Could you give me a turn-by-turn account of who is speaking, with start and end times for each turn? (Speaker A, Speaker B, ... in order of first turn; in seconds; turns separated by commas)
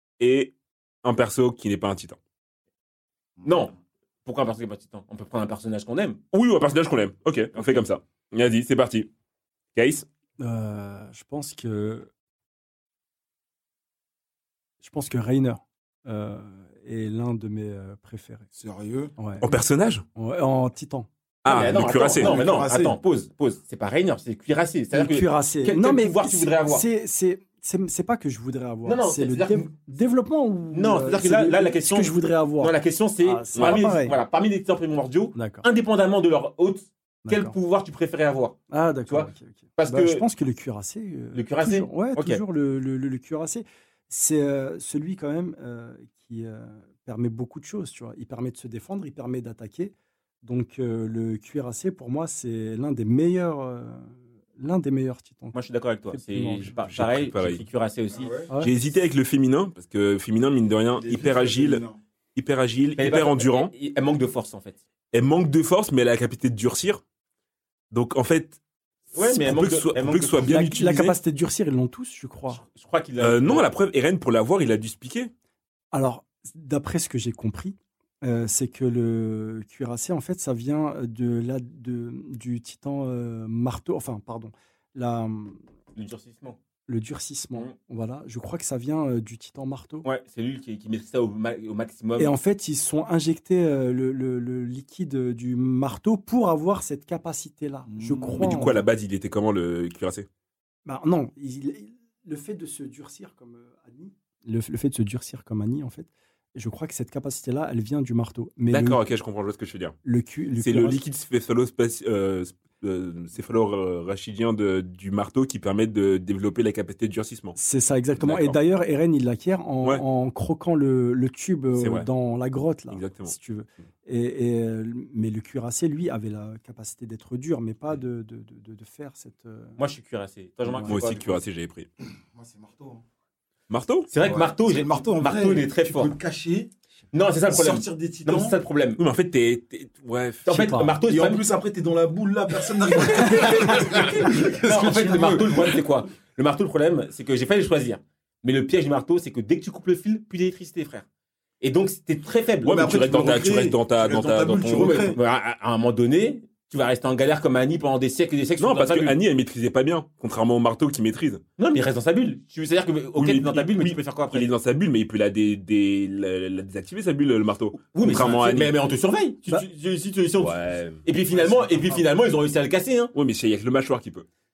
Speaker A: 0.2-2.2, Speaker B: 3.4-3.7, Speaker C: 3.4-3.7, Speaker C: 4.2-6.2, Speaker A: 6.3-9.1, Speaker C: 7.5-7.9, Speaker A: 9.7-10.1, Speaker D: 10.4-12.1, Speaker D: 14.8-18.5, Speaker B: 18.6-19.1, Speaker D: 19.2-19.5, Speaker A: 19.4-20.0, Speaker D: 20.1-21.1, Speaker A: 21.4-22.5, Speaker C: 21.4-26.9, Speaker B: 22.2-23.0, Speaker D: 24.9-34.2, Speaker C: 28.9-29.7, Speaker C: 30.7-40.2, Speaker A: 33.5-33.9, Speaker D: 35.3-35.6, Speaker D: 37.2-37.5, Speaker D: 38.7-57.0, Speaker C: 41.3-42.4, Speaker C: 55.5-58.3, Speaker A: 56.8-57.6, Speaker B: 58.1-58.5, Speaker A: 58.6-63.7, Speaker B: 60.9-62.0, Speaker C: 63.0-64.8, Speaker A: 65.1-67.0, Speaker A: 67.9-68.6, Speaker C: 69.1-70.6, Speaker A: 69.2-71.2, Speaker D: 70.5-72.6, Speaker C: 72.5-73.7, Speaker A: 73.2-75.3, Speaker D: 75.9-85.6, Speaker C: 86.0-86.6, Speaker D: 86.9-90.1, Speaker C: 90.0-92.3, Speaker D: 92.2-98.8, Speaker B: 97.9-98.5, Speaker A: 98.4-100.3, Speaker D: 100.8-109.0, Speaker A: 108.7-110.0, Speaker D: 110.0-111.0, Speaker A: 110.6-117.6, Speaker D: 117.6-129.8, Speaker A: 118.2-118.6, Speaker A: 121.8-122.1, Speaker A: 122.9-123.3, Speaker C: 129.8-131.0, Speaker D: 130.7-131.0, Speaker B: 130.8-131.4, Speaker A: 130.9-131.9, Speaker B: 132.3-133.0, Speaker A: 133.7-134.1, Speaker C: 134.1-136.2, Speaker B: 134.2-136.7, Speaker C: 137.1-139.0, Speaker B: 137.2-138.6, Speaker A: 139.0-140.7, Speaker C: 140.5-141.4, Speaker D: 140.5-141.0, Speaker B: 141.0-145.8, Speaker C: 143.0-151.1, Speaker C: 151.6-152.9, Speaker A: 152.7-155.2, Speaker B: 152.7-155.2, Speaker C: 154.7-159.2, Speaker A: 158.6-161.4, Speaker C: 161.6-164.5, Speaker A: 163.2-168.8, Speaker C: 167.8-173.1, Speaker A: 170.4-171.0, Speaker B: 171.3-172.2, Speaker A: 173.1-174.3